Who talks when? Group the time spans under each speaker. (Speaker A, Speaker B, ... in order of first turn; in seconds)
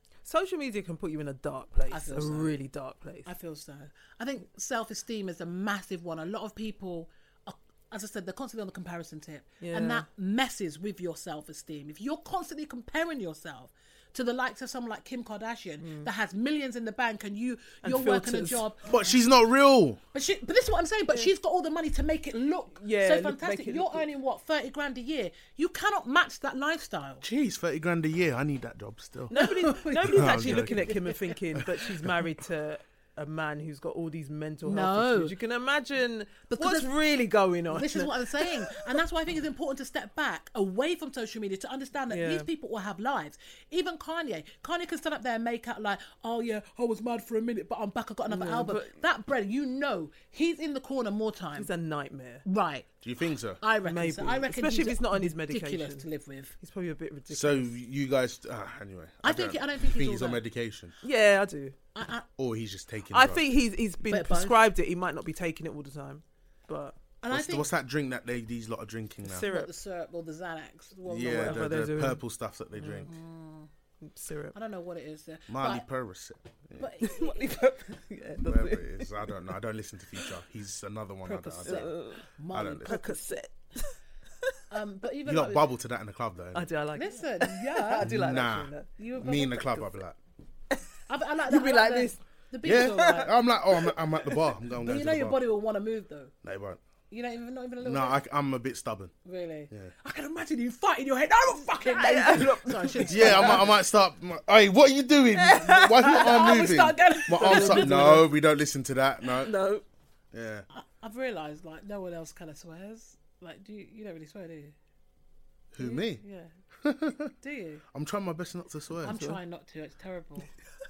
Speaker A: 0.2-3.3, 9.6-10.1, 15.8-16.1, 17.8-18.6, 22.8-24.1, 29.3-38.9, 42.1-42.5, 48.3-49.0, 51.6-52.5, 53.8-56.1, 56.6-57.7, 61.0-61.8, 63.1-67.0, 69.3-69.7, 71.3-72.2, 72.8-73.1, 74.0-74.6, 77.0-79.4, 81.7-82.3, 82.8-84.6, 86.5-88.9, 91.5-94.5, 101.9-103.7, 105.3-106.5, 107.3-108.3, 109.2-109.8, 115.8-116.5, 119.1-119.4
Speaker B: 1.9-2.5, 3.2-18.9, 20.1-27.2, 29.4-31.3, 34.6-35.4, 36.5-36.9, 37.7-51.7, 52.5-52.9, 53.6-56.5, 59.2-60.4, 62.0-62.3, 64.0-64.6, 67.2-67.7, 69.3-71.8, 73.1-73.7, 74.5-75.8, 76.8-77.5, 81.2-83.3, 84.7-85.7, 86.9-88.1, 89.0-90.0, 91.1-93.3, 94.8-96.3, 97.1-98.2, 99.2-103.8, 105.7-108.2, 110.7-114.8, 117.4-117.8, 119.0-120.5
Speaker C: 18.8-20.0, 27.2-29.5, 30.1-30.9, 31.6-32.2, 53.0-53.6, 57.3-60.9, 62.4-63.4, 67.3-69.5, 71.1-73.1, 75.5-77.0, 78.4-81.9, 82.5-83.0, 85.2-86.7, 88.0-90.2, 92.6-95.4, 96.4-96.8, 97.8-99.1, 103.0-109.6, 110.3-110.7, 115.7-116.2, 116.8-117.3, 117.9-119.2